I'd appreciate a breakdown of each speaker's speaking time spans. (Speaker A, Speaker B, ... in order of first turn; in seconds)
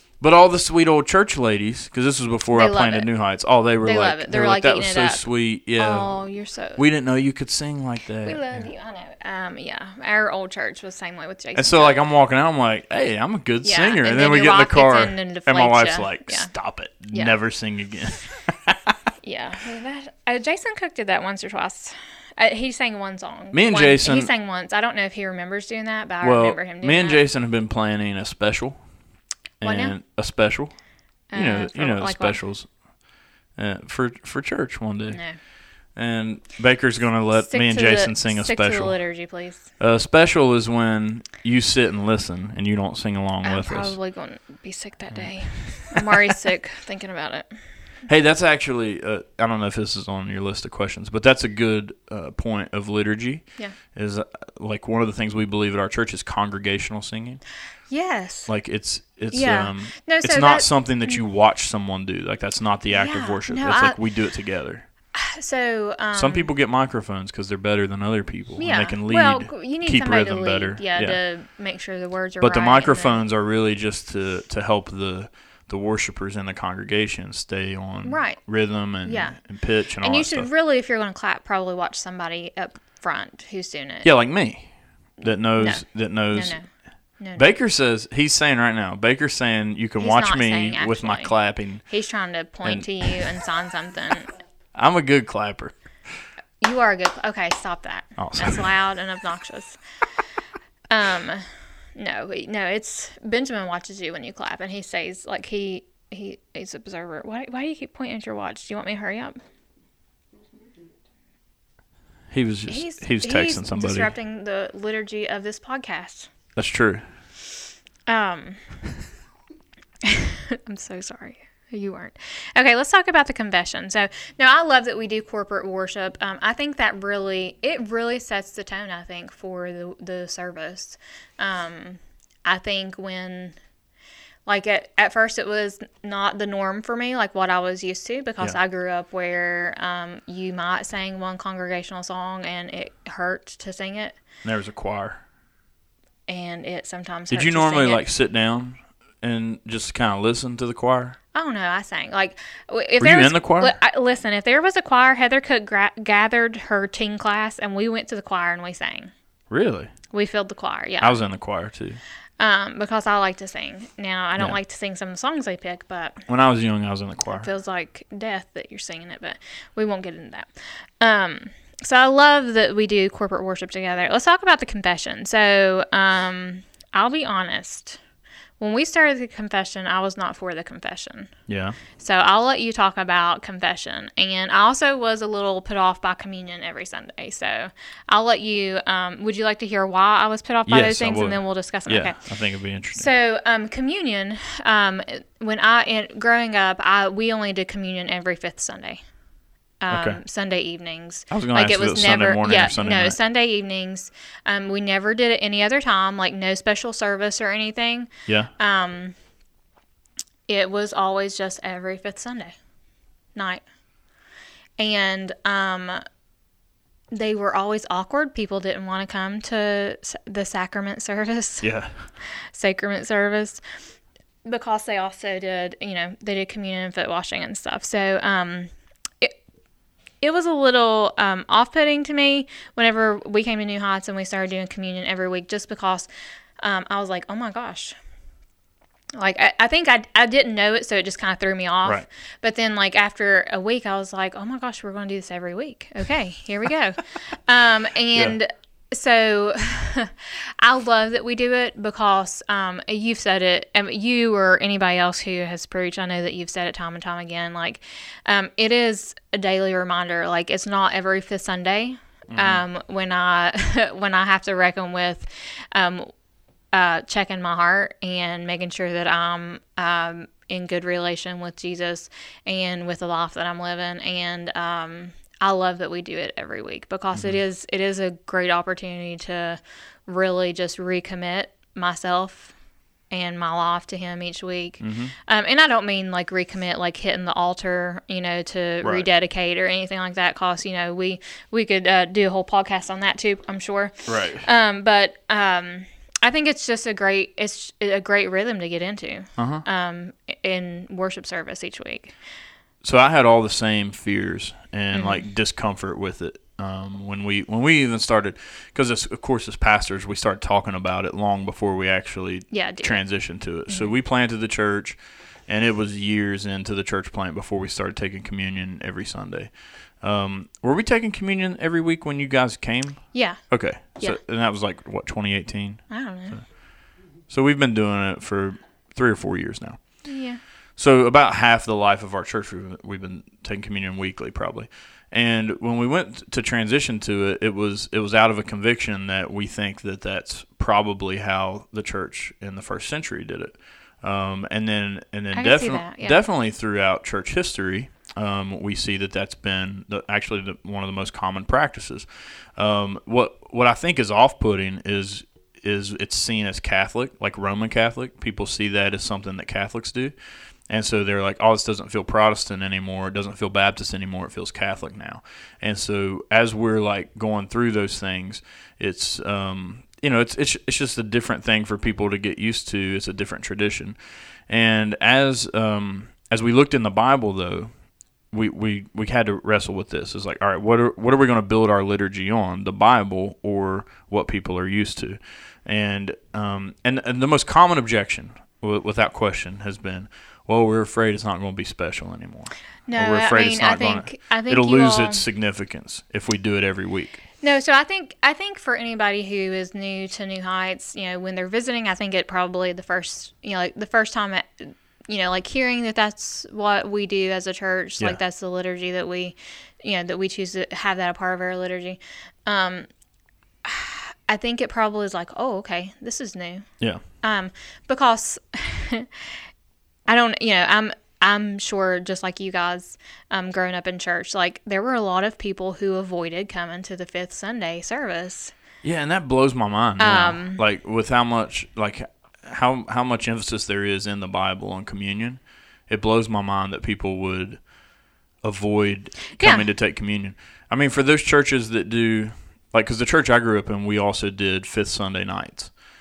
Speaker A: 0.2-6.2, 6.8-8.7, 11.5-18.9, 23.5-24.3, 26.2-28.8, 29.6-30.7, 31.3-32.7, 33.5-35.2, 36.0-39.0, 39.8-43.9, 45.1-46.2, 48.1-57.4, 58.5-64.8, 66.1-71.2, 72.4-80.5, 84.0-84.7, 85.2-86.6, 87.4-91.8, 92.6-93.4, 94.7-95.7, 98.2-98.7, 112.3-114.1, 116.5-117.0, 144.4-145.2, 147.3-151.2, 153.0-153.7, 159.5-159.9, 161.0-162.0, 166.3-167.5, 181.5-181.8, 190.7-193.1, 199.9-200.2, 201.3-203.2, 221.6-221.9, 262.3-262.6, 277.1-277.4, 284.8-285.1, 288.8-289.1, 294.1-294.5, 299.4-299.6, 302.8-326.4, 327.3-329.8, 330.8-360.1, 360.7-373.9, 374.5-377.7, 378.3-397.2, 428.8-437.6, 438.4-445.7
Speaker B: 2.5-3.1, 3.8-5.2, 5.8-6.8, 8.2-12.0, 13.6-16.5, 19.2-27.2, 29.6-29.9, 31.3-32.4, 35.1-35.4, 37.4-39.7, 43.4-47.5, 57.9-58.5, 59.3-61.2, 62.9-64.0, 65.1-66.5, 68.6-73.2, 78.0-78.4, 79.0-79.4, 80.0-84.1, 85.6-86.7, 87.2-87.5, 90.0-94.3, 96.6-99.8, 100.9-101.4, 102.0-109.4, 112.7-116.3, 118.1-118.6, 120.0-133.6, 134.5-144.2, 146.3-148.0, 151.3-159.1, 160.1-161.2, 162.4-166.2, 167.3-178.0, 178.6-181.3, 182.0-192.2, 192.9-199.0, 199.8-209.1, 210.5-212.5, 213.3-213.6, 214.8-216.0, 217.1-221.7, 222.5-223.6, 224.4-228.7, 230.2-236.1, 236.6-237.9, 239.2-266.1, 266.7-282.5, 283.1-302.1, 304.9-305.2, 312.5-313.0, 323.1-323.4, 325.9-326.4, 330.0-330.4, 345.3-346.2, 392.9-395.2, 397.4-412.9, 413.6-416.7, 417.2-419.1, 420.1-428.5, 430.0-430.6, 439.3-439.7